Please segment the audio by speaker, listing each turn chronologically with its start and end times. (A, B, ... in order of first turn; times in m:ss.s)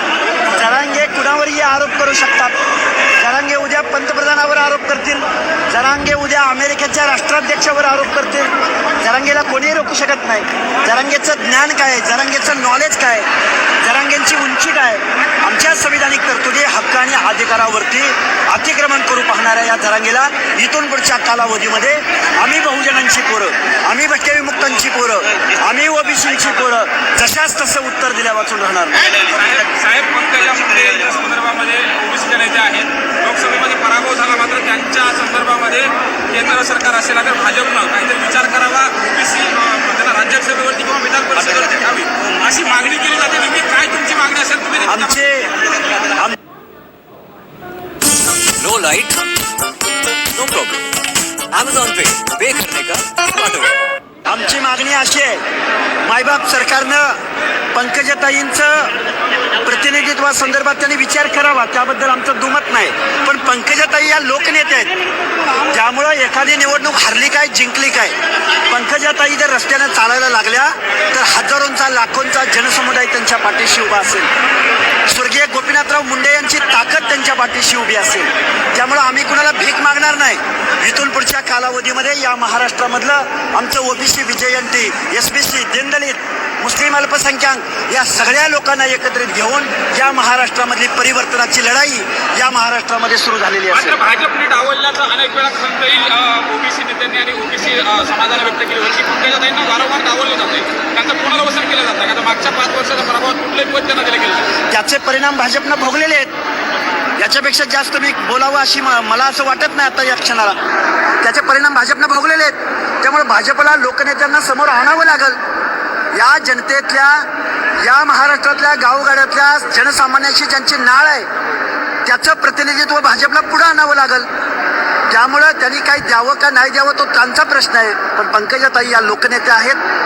0:00.5-0:02.6 A
0:03.2-0:13.3 A
0:13.8-0:29.2 A
0:29.2-0:45.3 B
0:44.8-0:45.5 A
0:48.5-0:49.4 C
0:50.2-0:50.9 C
0:51.5-0:53.8 C
0:54.2-0:55.4 A
0:56.0-0:57.2 A
0:57.7-0:58.9 A
0:59.6-1:04.9 A
1:05.6-1:08.2 A
1:08.7-1:14.3 A
1:15.0-1:34.0 A
1:33.7-1:44.5 B
1:44.7-1:46.3 A
1:47.2-1:50.6 A
1:51.2-1:55.4 A
1:56.1-1:57.3 A
1:57.8-2:01.3 A
2:02.0-2:04.3 A
2:05.1-2:09.8 A